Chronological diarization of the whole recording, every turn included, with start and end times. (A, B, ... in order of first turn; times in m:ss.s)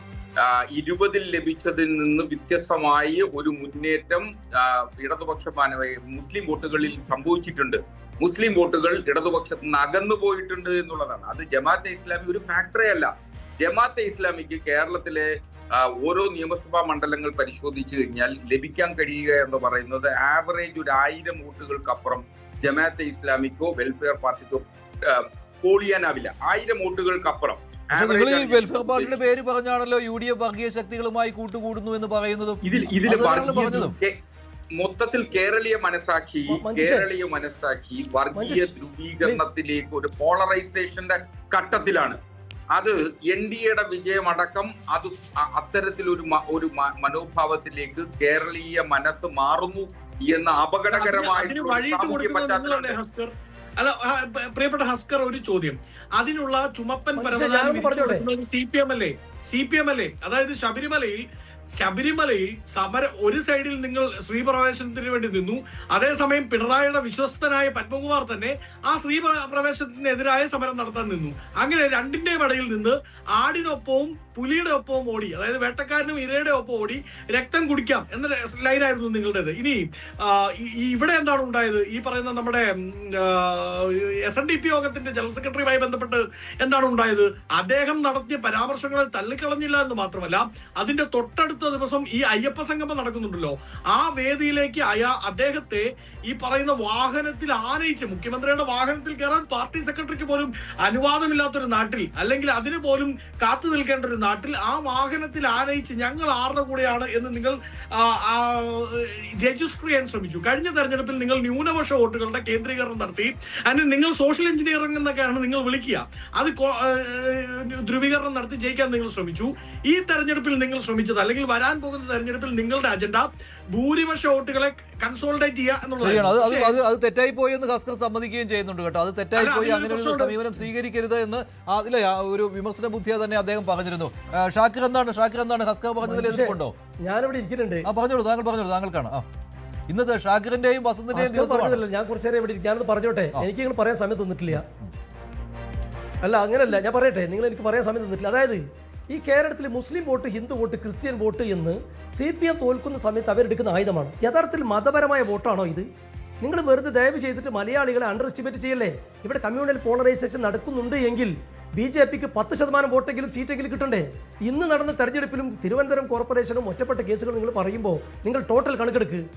0:00.4-0:29.2 A
0:27.9-0:34.0 B
0:32.6-0:34.1 A
0:34.8-0:42.2 A
0:36.5-0:37.1 C
0:38.3-0:39.5 C
0:42.7-0:53.0 A
0:50.9-1:01.2 D
0:57.2-0:58.2 C
1:01.8-2:06.8 D
2:06.0-2:16.7 B
2:09.4-2:10.4 D
2:16.0-2:17.9 C
2:17.8-2:19.2 B
2:19.9-2:21.8 B
2:21.1-2:24.6 C
2:26.2-2:35.9 C
2:36.4-2:49.2 C